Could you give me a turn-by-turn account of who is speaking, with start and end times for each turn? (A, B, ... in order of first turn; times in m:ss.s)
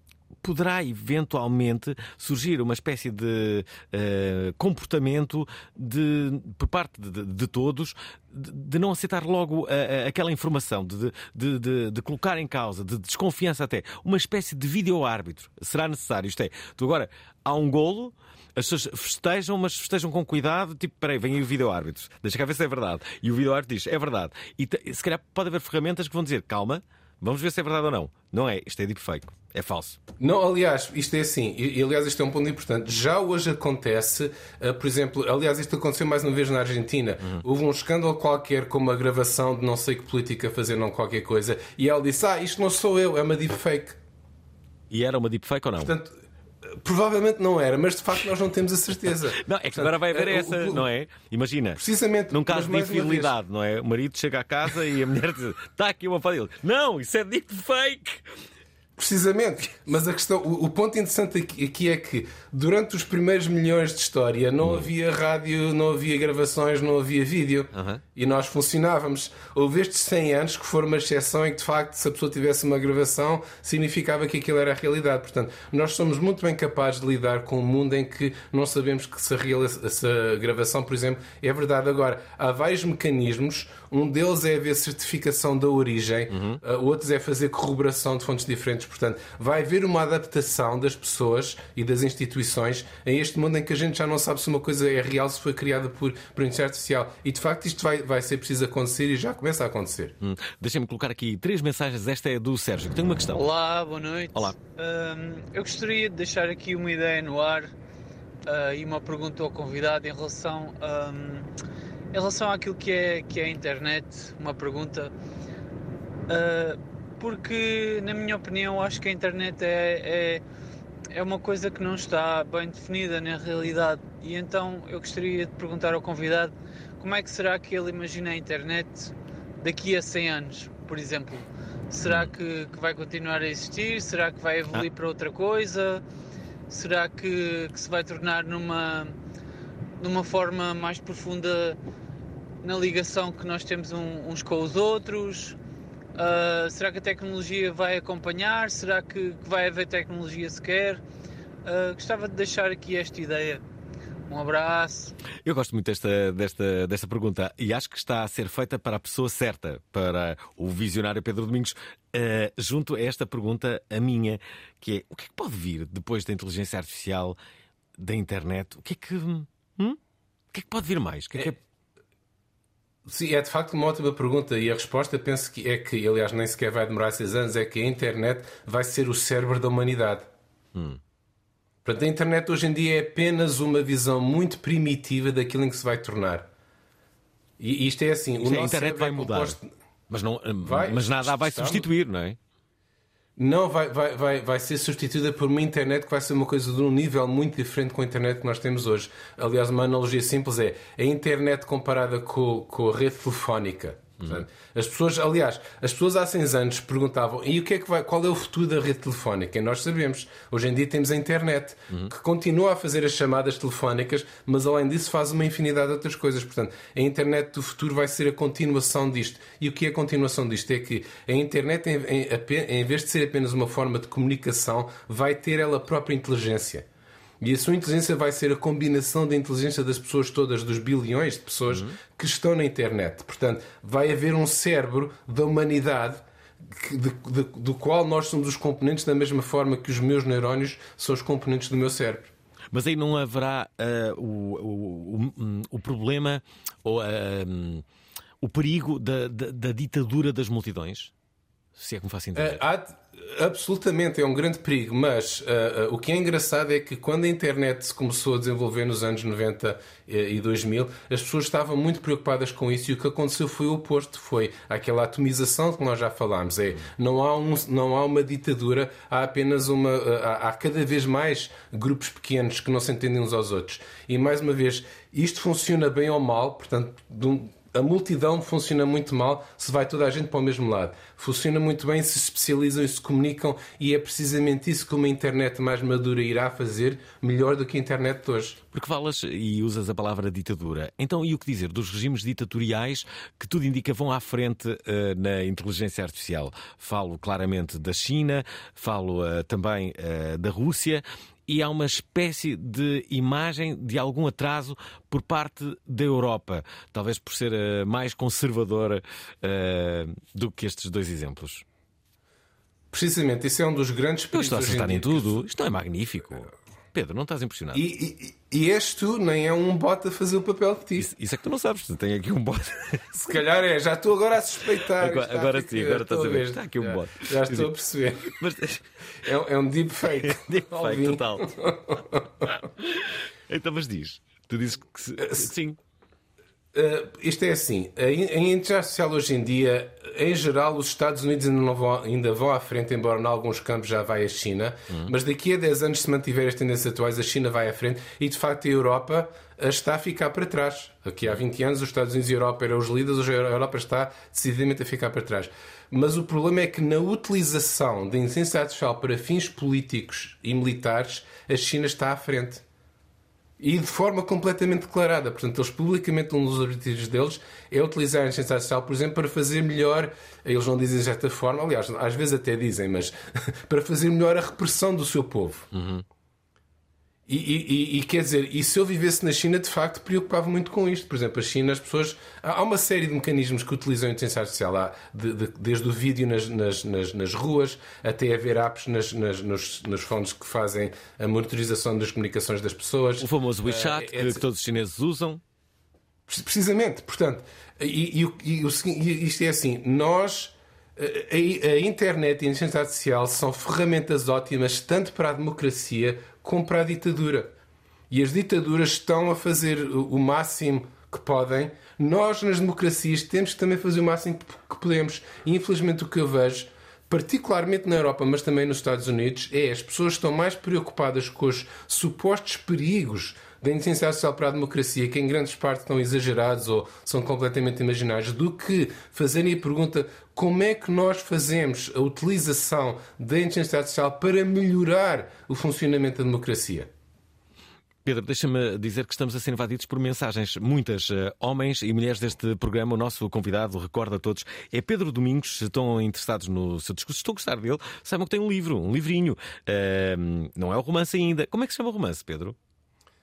0:00.4-0:30.0 A
0:30.2-0:44.0 B
0:44.9-0:45.9 A
0:45.8-0:46.1 B
0:46.7-0:50.8 B
0:49.4-0:58.3 A
0:51.8-0:53.3 B
0:59.0-1:40.1 B
1:04.6-1:04.9 A
1:07.7-1:08.0 A
1:26.3-1:26.6 A
1:40.2-1:43.4 A
1:43.3-1:47.7 C
1:48.4-1:51.5 C
1:52.1-1:55.1 C
1:56.3-2:00.4 C
2:01.1-2:16.0 C
2:12.0-2:12.3 A
2:16.7-2:19.2 C
2:20.0-2:21.8 C
2:22.6-2:25.6 C
2:26.2-2:31.0 C
2:31.6-2:33.6 C
2:34.3-2:35.1 C
2:35.4-2:47.4 A
2:48.0-2:50.0 A
2:50.5-2:51.6 A
2:53.0-3:00.3 B
3:00.7-3:01.0 A
3:01.8-3:06.5 B
3:07.6-3:09.6 B
3:08.4-3:09.6 A
3:10.1-3:12.4 A
3:10.6-3:11.8 B
3:13.4-3:46.8 B
3:24.2-3:24.4 A
3:47.4-4:02.3 B
3:51.7-3:52.0 A
4:02.7-4:07.8 A
4:08.4-4:11.1 A
4:11.7-4:12.6 A
4:12.4-4:48.6 B
4:48.7-5:11.6 A
5:12.9-5:15.4 B
5:14.3-5:17.8 A
5:17.7-5:21.1 B
5:21.0-5:23.0 A
5:23.1-5:28.3 B
5:25.0-5:27.7 A
5:28.2-5:28.8 A
5:29.2-5:32.6 B
5:30.1-5:31.5 A
5:32.8-5:35.8 A
5:35.2-5:35.5 B
5:36.7-6:02.6 B
6:03.6-6:13.2 B
6:13.7-6:15.7 B
6:15.7-6:16.0 A
6:17.3-6:34.4 B
6:33.2-6:35.4 A
6:36.3-6:47.5 B
6:48.1-7:16.9 B
7:18.0-7:32.6 A